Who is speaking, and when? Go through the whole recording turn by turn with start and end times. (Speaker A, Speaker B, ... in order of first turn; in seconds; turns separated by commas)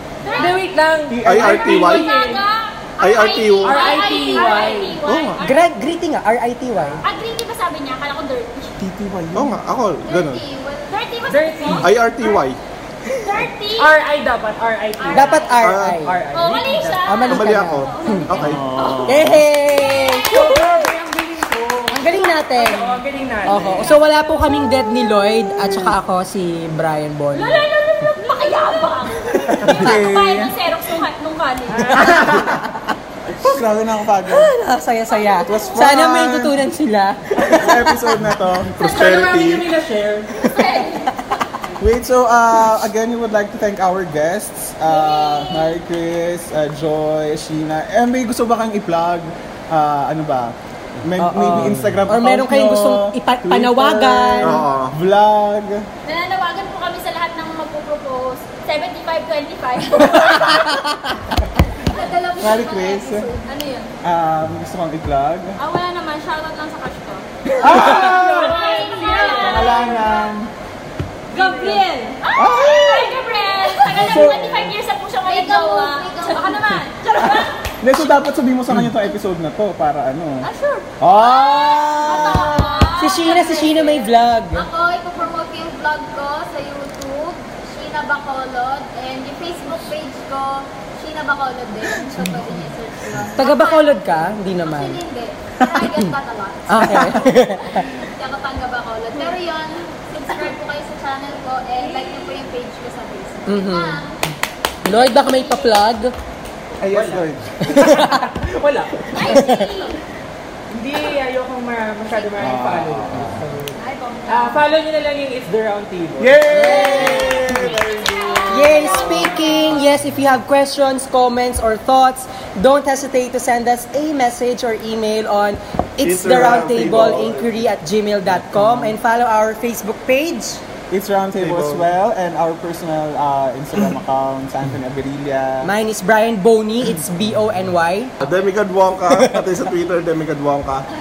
Speaker A: 0.2-0.6, Speaker B: 0.2-0.6, Speaker C: 0.4-2.5, Speaker D: 1.1-2.0, Speaker E: 1.2-2.1, Speaker A: 1.8-5.8, Speaker E: 3.0-3.9, Speaker C: 3.6-5.0, Speaker E: 5.0-5.4, Speaker F: 5.4-7.0, Speaker A: 7.0-8.7, Speaker D: 8.8-9.5, Speaker E: 9.3-10.4, Speaker B: 10.0-11.0, Speaker A: 10.9-12.4, Speaker C: 11.3-11.9, Speaker E: 11.7-12.6, Speaker A: 13.2-13.9, Speaker C: 13.8-17.2, Speaker B: 15.0-15.6, Speaker A: 15.1-15.6, Speaker F: 15.1-16.2, Speaker E: 15.5-16.0, Speaker A: 16.3-19.2, Speaker F: 17.1-18.3, Speaker E: 17.2-19.0, Speaker D: 18.4-19.4, Speaker F: 19.0-20.8, Speaker A: 19.8-20.3, Speaker C: 20.2-23.9, Speaker F: 21.9-27.7, Speaker A: 23.6-24.0, Speaker A: 27.3-32.2, Speaker D: 29.5-30.6, Speaker C: 31.7-32.6, Speaker F: 32.2-32.8, Speaker D: 33.4-34.5, Speaker F: 34.3-38.2, Speaker A: 35.1-35.8, Speaker D: 35.4-36.6, Speaker D: 37.5-38.8, Speaker E: 38.7-39.8, Speaker C: 38.8-40.5, Speaker A: 40.5-41.1, Speaker B: 40.6-40.9, Speaker D: 41.8-55.9, Speaker A: 44.9-45.8, Speaker F: 51.2-54.6, Speaker E: 54.4-55.0, Speaker A: 56.0-60.8, Speaker B: 61.9-63.5, Speaker D: 62.4-63.3, Speaker A: 63.5-63.9, Speaker D: 64.0-65.6, Speaker A: 65.6-70.1, Speaker D: 67.6-68.6, Speaker C: 67.8-69.7, Speaker D: 69.4-70.5, Speaker B: 69.8-70.0, Speaker A: 71.3-77.6, Speaker D: 72.3-73.2, Speaker B: 73.8-74.1, Speaker D: 74.0-74.7, Speaker B: 75.2-76.8, Speaker D: 77.2-80.5, Speaker A: 80.4-84.0, Speaker D: 81.0-82.7, Speaker B: 82.5-94.0, Speaker F: 83.0-84.7, Speaker F: 93.4-95.0, Speaker B: 94.6-104.2, Speaker F: 96.7-97.9, Speaker A: 101.8-102.4, Speaker F: 103.5-104.0, Speaker F: 104.8-106.1, Speaker D: 106.8-107.5, Speaker C: 106.9-109.5, Speaker F: 107.6-108.2, Speaker A: 109.1-110.0, Speaker F: 109.2-109.7, Speaker C: 110.7-116.5, Speaker D: 112.4-113.4, Speaker B: 113.8-114.6, Speaker D: 116.2-117.8, Speaker F: 116.5-117.5, Speaker E: 116.6-119.4, Speaker A: 117.8-119.8, Speaker F: 118.5-130.6, Speaker E: 126.0-127.6, Speaker D: 128.4-128.9, Speaker D: 130.9-135.7, Speaker E: 131.4-131.9, Speaker F: 135.6-138.1, Speaker E: 138.2-140.9